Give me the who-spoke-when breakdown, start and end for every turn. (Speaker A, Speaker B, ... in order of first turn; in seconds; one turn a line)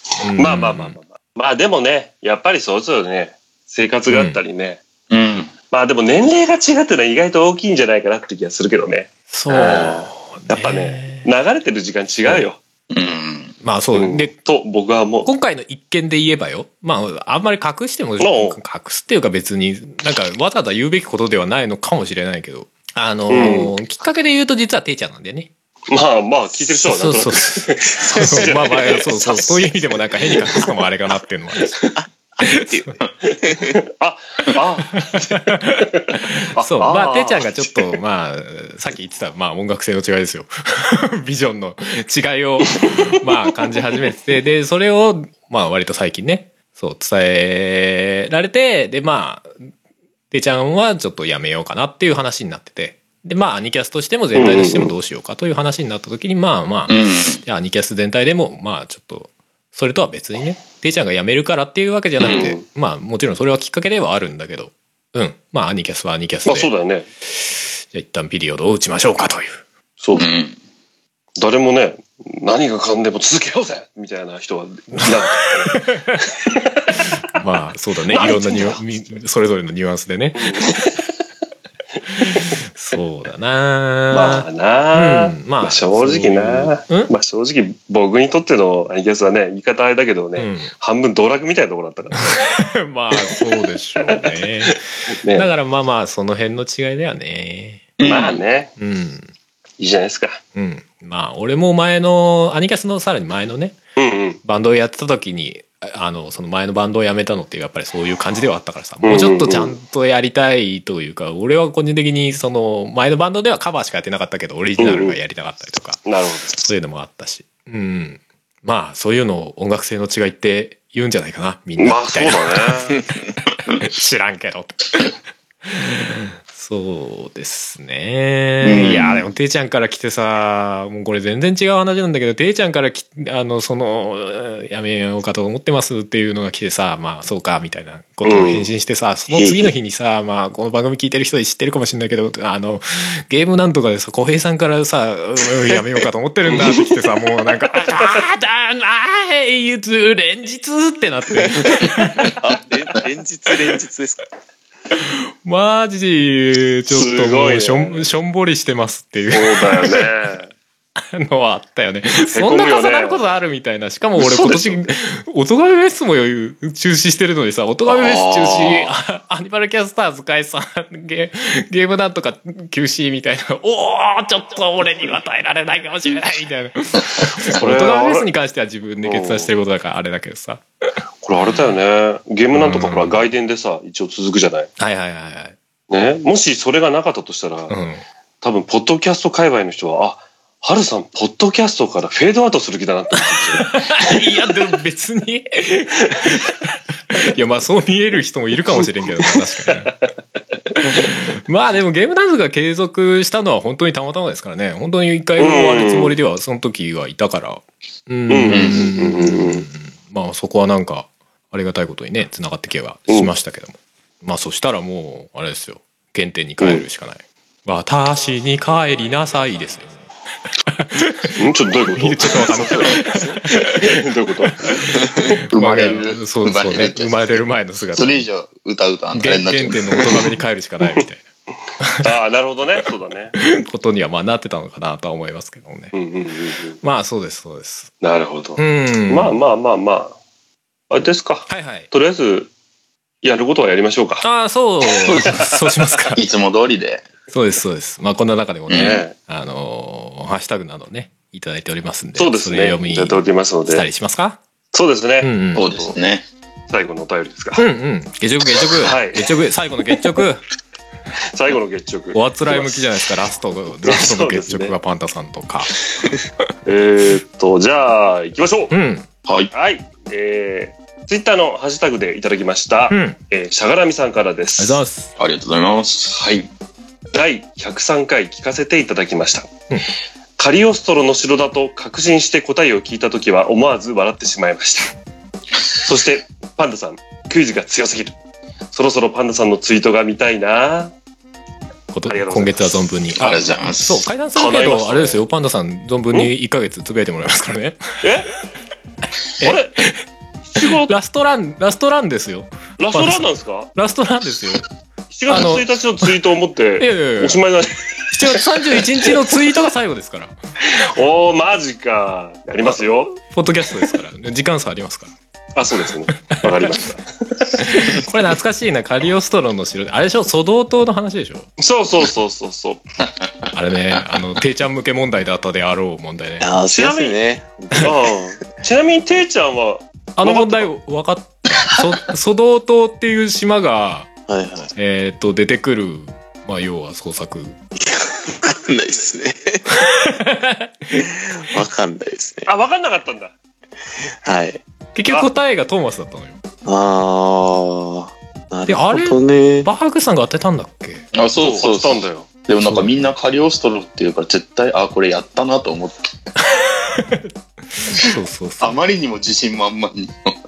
Speaker A: 0.2-0.9
Speaker B: 0.4-4.8
Speaker A: 4.1-4.4
Speaker C: 5.1-5.5
Speaker B: 5.7-12.6
Speaker A: 9.3-11.3
Speaker C: 12.9-13.6
Speaker A: 13.6-14.3
Speaker B: 13.9-15.3
Speaker A: 15.2-25.5
Speaker B: 18.2-18.6
Speaker B: 23.3-23.7
Speaker B: 25.9-29.7
Speaker A: 26.8-31.8
Speaker B: 30.3-30.7
Speaker B: 31.6-31.9
Speaker D: 32.0-33.8
Speaker A: 32.4-32.8
Speaker B: 33.7-38.0
Speaker A: 35.5-49.7
Speaker A: 50.3-66.7
Speaker B: 54.4-54.9
Speaker C: 56.9-57.4
Speaker B: 62.2-62.6
Speaker B: 66.5-67.1
Speaker A: 67.4-69.6
Speaker B: 70.0-70.3
Speaker C: 70.2-70.6
Speaker B: 71.4-75.9
Speaker A: 75.7-76.2
Speaker B: 76.4-77.1
Speaker A: 77.3-80.7
Speaker B: 78.1-78.8
Speaker B: 80.4-81.1
Speaker A: 82.2-87.1
Speaker B: 82.2-82.5
Speaker B: 84.1-92.5
Speaker A: 90.4-90.7
Speaker A: 92.3-97.9
Speaker B: 94.1-95.5
Speaker C: 98.0-98.4
Speaker B: 98.0-98.7
Speaker A: 98.8-99.3
Speaker B: 99.8-100.4
Speaker A: 100.5-103.8
Speaker B: 104.0-104.4
Speaker A: 104.4-123.0
Speaker B: 109.0-109.8
Speaker B: 114.8-115.2
Speaker B: 116.1-116.6
Speaker B: 121.8-123.0
Speaker A: 123.7-125.1
Speaker A: 125.7-152.3
Speaker C: 128.6-129.3
Speaker B: 138.2-138.7
Speaker D: 139.3-139.7
Speaker B: 146.5-147.0
Speaker B: 147.5-148.0
Speaker D: 152.4-154.2
Speaker A: 154.9-160.1
Speaker B: 156.9-158.1
Speaker B: 159.3-160.5
Speaker A: 161.0-180.6
Speaker B: 162.3-163.2
Speaker B: 164.2-164.9
Speaker C: 167.9-168.8
Speaker B: 177.4-178.3
Speaker B: 179.0-179.5
Speaker B: 181.2-184.7
Speaker A: 182.5-183.3
Speaker A: 184.8-185.6
Speaker B: 185.9-187.7
Speaker A: 187.7-188.0
Speaker B: 188.4-194.2
Speaker A: 193.5-199.9
Speaker A: 200.8-219.9
Speaker B: 205.4-206.2
Speaker B: 208.3-209.7
Speaker C: 208.5-208.9
Speaker A: 220.7-223.9
Speaker B: 221.3-225.3
Speaker A: 224.9-228.2
Speaker C: 225.5-227.2
Speaker C: 227.9-230.3
Speaker A: 229.2-231.2
Speaker A: 231.8-232.1
Speaker B: 232.0-233.4
Speaker A: 233.4-235.9
Speaker B: 235.9-236.8
Speaker A: 236.8-237.9
Speaker B: 238.0-240.2
Speaker A: 238.6-239.4
Speaker B: 240.9-242.5
Speaker A: 241.5-241.9
Speaker B: 243.2-244.2
Speaker A: 244.2-246.2
Speaker B: 244.9-245.7
Speaker C: 246.2-247.1
Speaker A: 247.3-254.4
Speaker C: 248.7-249.0
Speaker B: 248.7-249.1
Speaker B: 252.2-253.8
Speaker B: 254.7-256.0
Speaker A: 255.2-255.7
Speaker C: 255.5-256.3
Speaker B: 256.7-257.6
Speaker A: 257.6-260.4
Speaker B: 258.8-259.3
Speaker B: 261.3-262.9
Speaker A: 262.1-265.9
Speaker B: 263.8-264.7
Speaker B: 266.6-268.7
Speaker A: 268.7-269.1
Speaker C: 269.3-269.5
Speaker B: 269.5-274.8
Speaker A: 272.9-273.2
Speaker A: 274.6-275.1
Speaker C: 275.2-276.4
Speaker B: 276.1-276.5
Speaker B: 277.1-279.5
Speaker B: 280.4-284.9
Speaker B: 285.7-288.2
Speaker B: 288.7-290.9
Speaker A: 291.9-297.8
Speaker B: 292.1-293.0
Speaker C: 293.2-294.1
Speaker B: 294.4-295.2
Speaker B: 298.0-298.3
Speaker A: 299.4-300.0
Speaker B: 299.4-299.7
Speaker B: 300.5-300.9
Speaker A: 300.6-304.7
Speaker B: 302.8-303.7
Speaker B: 305.1-308.1
Speaker A: 305.3-305.7
Speaker A: 306.8-307.4
Speaker A: 308.1-310.3
Speaker B: 308.7-309.2
Speaker B: 310.6-313.2
Speaker A: 312.6-315.1
Speaker B: 315.6-318.0
Speaker A: 316.2-316.7
Speaker A: 317.6-321.5
Speaker B: 321.6-322.8
Speaker A: 323.5-326.5
Speaker D: 326.4-328.0
Speaker B: 326.7-327.2
Speaker B: 327.7-330.7
Speaker A: 330.2-334.1
Speaker D: 334.3-334.7
Speaker A: 334.8-337.6
Speaker D: 337.8-339.8
Speaker A: 339.8-341.0
Speaker D: 340.9-342.5
Speaker B: 342.5-343.3
Speaker D: 344.2-344.6
Speaker A: 344.9-346.4
Speaker D: 346.6-349.7
Speaker A: 348.7-351.0
Speaker C: 351.1-356.1
Speaker B: 351.4-352.3
Speaker A: 352.6-353.0
Speaker A: 356.5-358.8
Speaker C: 358.6-360.4